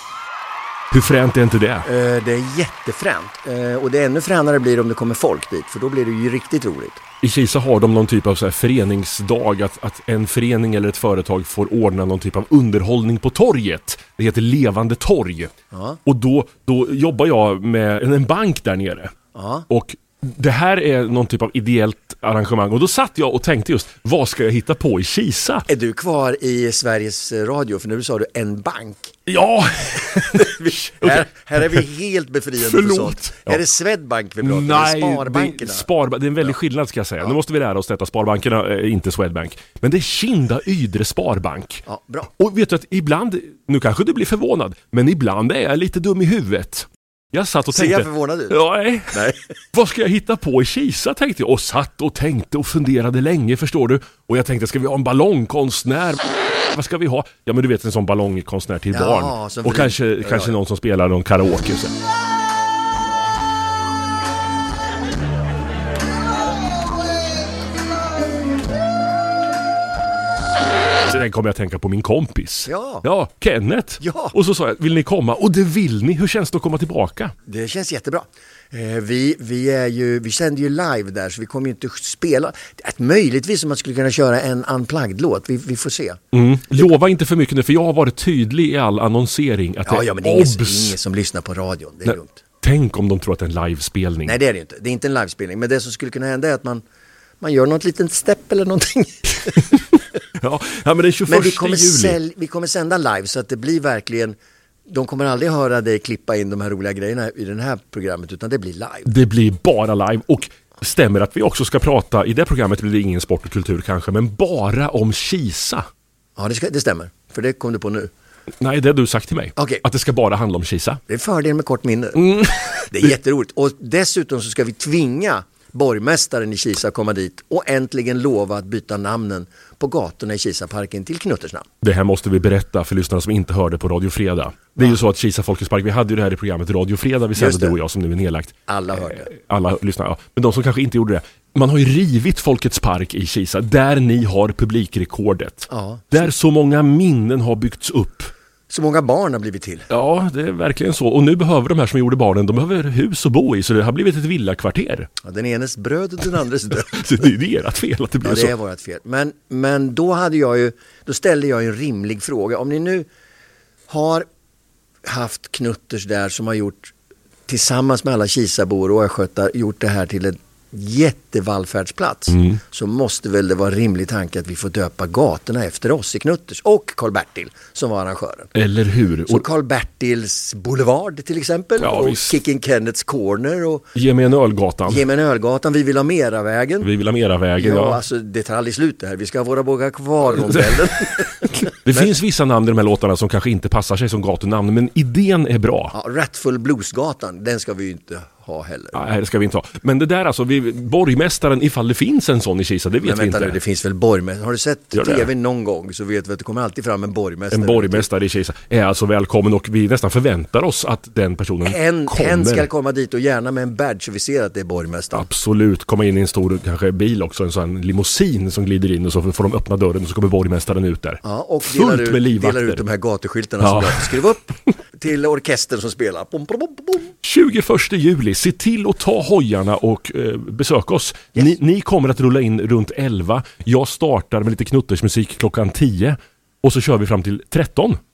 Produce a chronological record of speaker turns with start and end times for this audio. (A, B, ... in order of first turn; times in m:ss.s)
0:00.9-0:01.8 A
0:01.8-0:07.0 B
0:07.2-0:15.5 A
0:15.7-0:16.0 B
0:16.0-0:19.1 A
0:19.3-0:19.7 B
0:19.7-0:25.7 A
0:25.7-0:29.2 B
0:29.3-0:31.8 A
0:30.3-0:35.8 B
0:32.6-0:33.6 A
0:34.4-0:41.8 A
0:41.8-0:42.3 B
0:42.4-1:01.9 A
0:47.7-0:48.6 B
0:49.1-0:49.4 B
0:58.9-1:00.6 B
1:11.0-1:17.3 A
1:12.6-1:13.0 B
1:14.0-1:14.3 B
1:17.4-1:26.2 B
1:26.3-1:31.0 A
1:29.8-1:32.4 B
1:32.1-1:34.4 A
1:34.2-1:36.8 B
1:37.4-1:39.7 B
1:40.4-1:42.2 A
1:41.3-1:44.4 B
1:44.9-1:49.1 B
1:49.1-1:55.9 A
1:56.4-1:58.1 B
1:58.6-2:01.0 A
1:59.6-1:59.8 B
2:01.1-2:11.7 B
2:02.2-2:03.0 A
2:11.8-2:28.3 A
2:17.4-2:17.8 B
2:18.7-2:19.3 B
2:25.7-2:26.3 B
2:28.7-2:29.9 B
2:29.9-2:35.1 A
2:35.2-2:37.0 B
2:36.9-2:38.5 A
2:38.2-2:43.1 B
2:43.9-2:44.3 B
2:45.0-2:46.9 B
2:47.5-2:58.5 B
2:58.5-2:59.4 A
2:59.3-3:03.9 B
3:01.8-3:02.3 A
3:04.0-3:05.0 A
3:04.8-3:06.9 B
3:06.8-3:08.0 A
3:07.6-3:12.1 B
3:10.5-3:10.8 A
3:11.8-3:15.9 A
3:15.9-3:19.0 B
3:18.9-3:23.6 A
3:23.0-3:28.1 B
3:24.9-3:25.3 A
3:27.5-3:32.7 A
3:31.6-3:35.3 B
3:35.1-3:42.8 A
3:41.2-3:47.1 B
3:43.6-3:44.1 A
3:47.2-3:58.0 A